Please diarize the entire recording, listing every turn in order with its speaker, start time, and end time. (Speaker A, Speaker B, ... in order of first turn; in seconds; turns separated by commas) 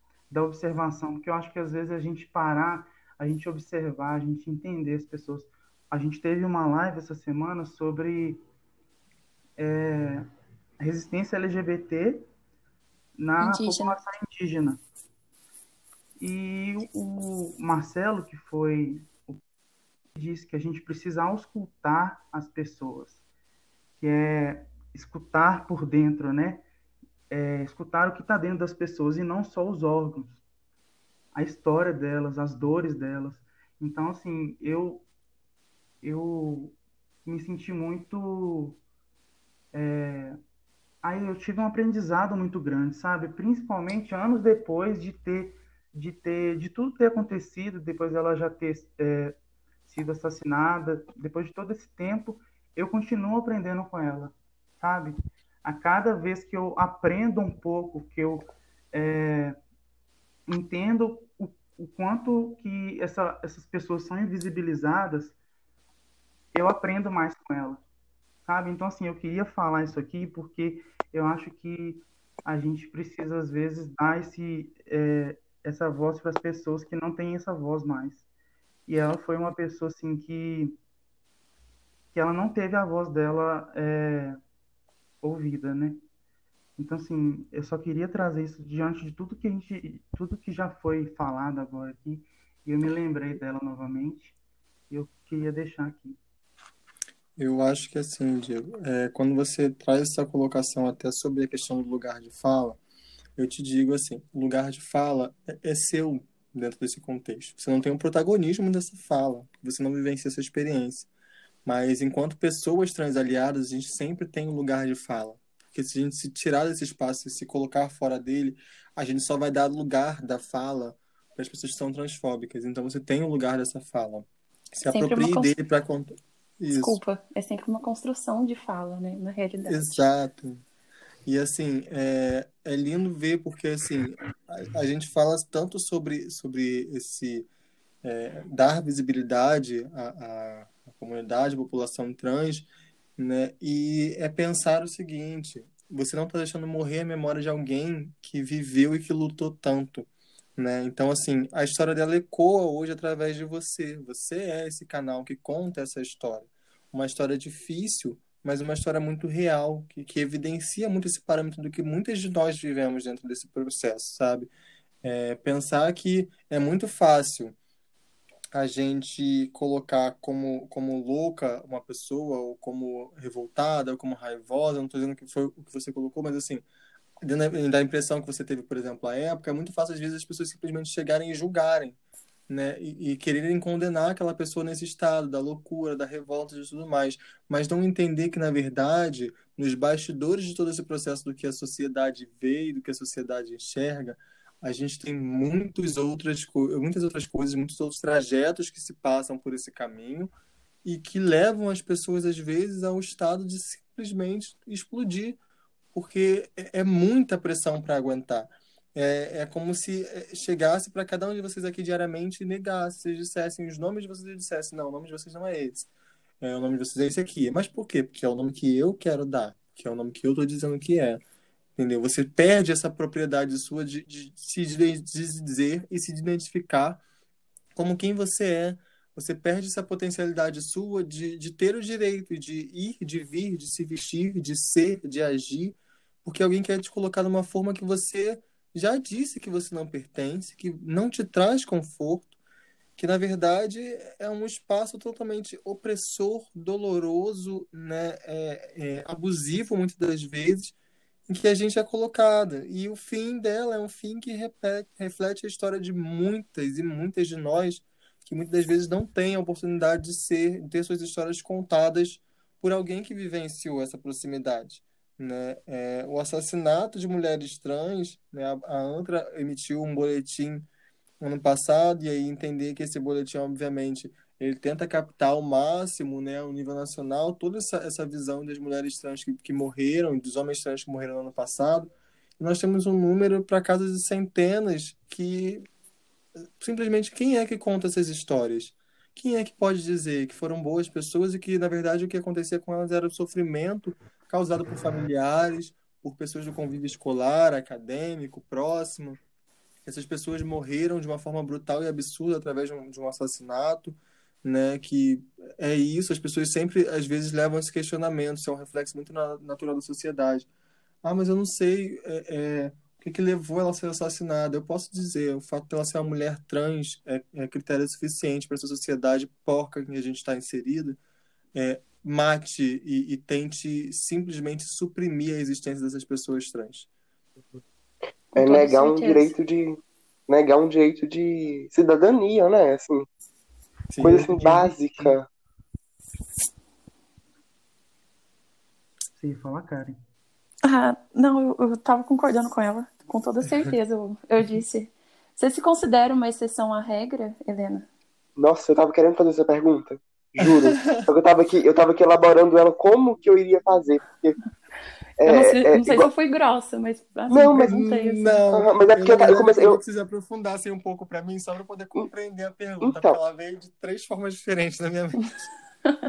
Speaker A: 0.3-8.4, Speaker A: 9.6-10.3, Speaker A: 10.8-12.3, Speaker A: 13.2-14.8, Speaker B: 13.4-14.0, Speaker A: 16.2-19.4, Speaker A: 20.1-23.2, Speaker A: 24.0-26.6, Speaker A: 27.3-30.4, Speaker A: 31.3-35.1, Speaker A: 36.0-38.8, Speaker A: 39.7-40.4, Speaker A: 41.0-59.6, Speaker A: 60.5-65.3, Speaker A: 66.5-67.8, Speaker A: 68.5-78.2, Speaker A: 78.9-80.8, Speaker A: 82.1-84.4, Speaker A: 85.2-86.0, Speaker A: 86.8-94.4, Speaker A: 94.9-96.2, Speaker C: 97.4-102.8, Speaker C: 103.4-111.1, Speaker C: 111.7-127.0, Speaker B: 124.9-125.5, Speaker B: 126.7-130.1, Speaker C: 129.7-130.6, Speaker C: 131.3-137.5, Speaker C: 138.0-164.5, Speaker C: 165.0-167.6, Speaker C: 168.5-176.6, Speaker C: 177.2-182.0, Speaker C: 182.5-200.3, Speaker C: 200.8-205.4, Speaker C: 205.9-215.9, Speaker C: 216.4-221.2, Speaker C: 221.8-227.0, Speaker C: 227.8-242.3, Speaker C: 243.0-250.8, Speaker C: 251.3-270.7, Speaker C: 271.2-285.6, Speaker C: 286.6-299.2, Speaker C: 299.9-310.5, Speaker C: 311.0-321.0, Speaker C: 321.6-326.9, Speaker B: 328.4-329.3, Speaker D: 328.4-333.1, Speaker C: 333.9-335.2, Speaker D: 334.0-335.3, Speaker A: 339.2-340.0, Speaker B: 340.6-347.9, Speaker D: 348.4-354.4, Speaker C: 350.4-351.0, Speaker D: 355.2-356.1, Speaker B: 355.2-358.4, Speaker D: 357.3-357.8, Speaker C: 357.6-365.3, Speaker D: 358.5-359.8, Speaker D: 362.8-363.2